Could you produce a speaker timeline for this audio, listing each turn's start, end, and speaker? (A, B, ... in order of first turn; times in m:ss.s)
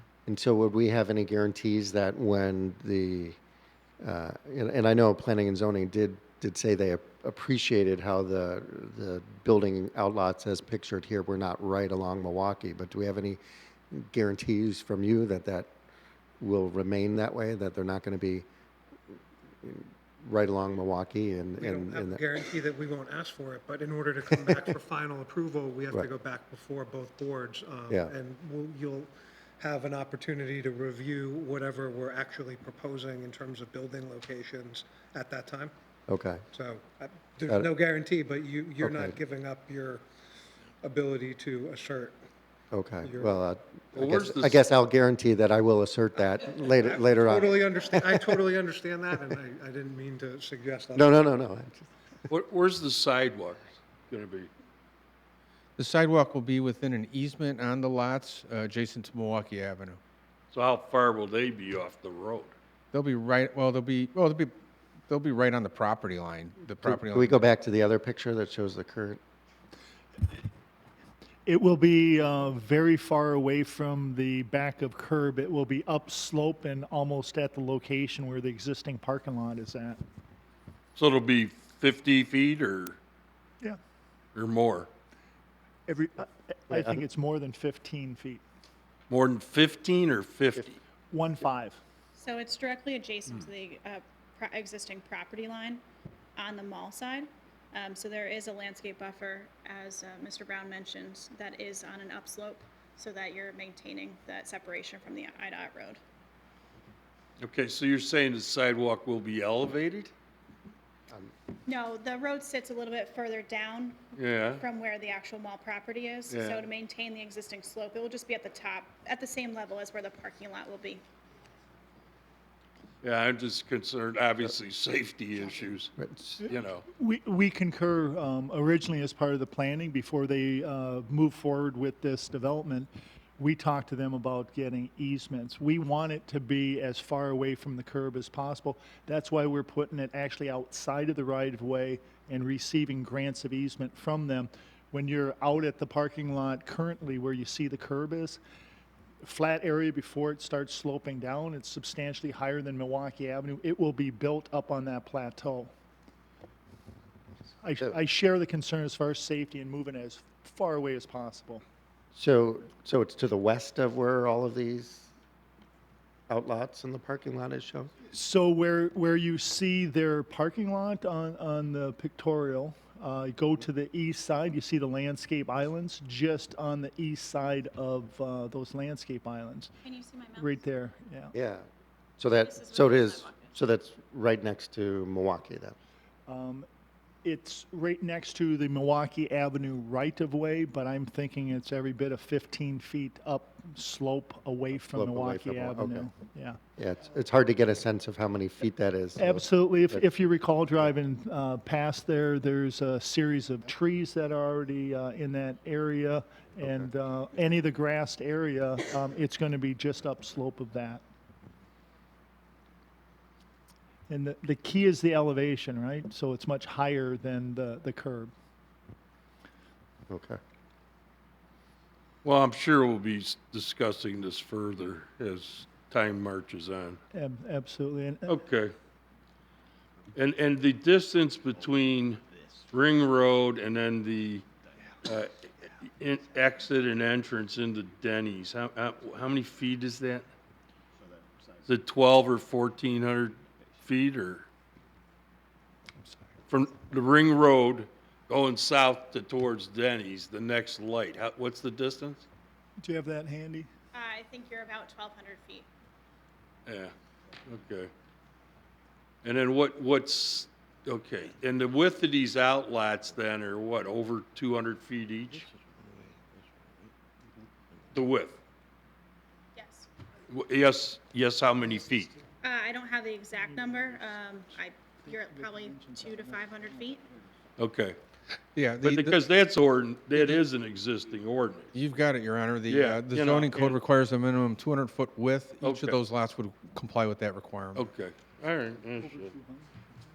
0:00.2-0:03.4 A
0:04.0-0:15.7 A
0:16.4-0:18.4 A
0:19.6-0:22.3 A
0:21.6-0:35.7 B
0:36.1-0:36.4 A
0:36.5-0:40.0 B
0:38.8-0:39.2 A
0:40.8-0:42.2 B
0:42.7-0:48.4 A
0:43.0-0:43.4 B
0:44.0-0:44.6 C
0:46.8-0:51.3 B
0:50.9-0:51.9 A
0:52.3-0:54.5 C
0:55.8-1:00.0 D
1:00.5-1:02.5 C
1:02.9-1:04.5 D
1:05.1-1:07.4 D
1:06.8-1:09.2 A
1:11.4-1:20.0 E
1:20.9-1:23.0 C
1:24.3-1:24.9 C
1:25.9-1:28.4 E
1:26.7-1:27.0 A
1:29.1-1:30.8 C
1:31.1-1:31.8 E
1:32.2-1:35.8 F
1:36.4-1:46.0 F
1:47.4-1:50.1 C
1:51.6-2:01.0 F
1:54.1-1:54.6 C
1:56.3-1:56.6 C
2:03.0-2:06.9 C
2:06.0-2:06.4 A
2:06.4-2:28.4 E
2:29.2-2:35.7 E
2:37.6-2:41.6 E
2:42.1-2:45.1 A
2:46.3-2:47.9 A
2:48.1-2:59.7 E
2:59.8-3:00.6 F
3:00.4-3:01.3 E
3:01.3-3:01.7 A
3:02.2-3:05.8 A
3:02.4-3:03.5 F
3:06.3-3:06.7 E
3:07.2-3:16.6 E
3:14.8-3:16.1 A
3:16.8-3:20.0 A
3:19.2-3:31.0 E
3:34.1-3:38.3 E
3:40.1-3:40.4 A
3:42.2-3:47.0 C
3:47.1-3:48.4 E
3:48.3-3:48.7 C
3:50.1-3:54.5 C
3:55.0-4:00.3 C
4:01.6-4:04.5 C
4:06.5-4:12.3 C
4:12.8-4:13.7 E
4:13.9-4:15.7 F
4:16.6-4:16.9 C
4:17.4-4:17.9 C
4:19.2-4:25.5 C
4:27.9-4:28.4 C
4:29.6-4:29.9 F
4:30.3-4:32.2 C
4:32.4-4:37.0 F
4:33.5-4:33.9 E
4:35.0-4:37.0 E
4:37.6-4:38.0 C
4:38.5-4:39.2 D
4:38.8-4:41.8 C
4:40.1-4:40.4 D
4:41.7-4:47.9 D
4:42.7-4:43.8 C
4:45.6-4:46.0 C
4:47.7-4:49.3 C
4:49.0-4:49.7 E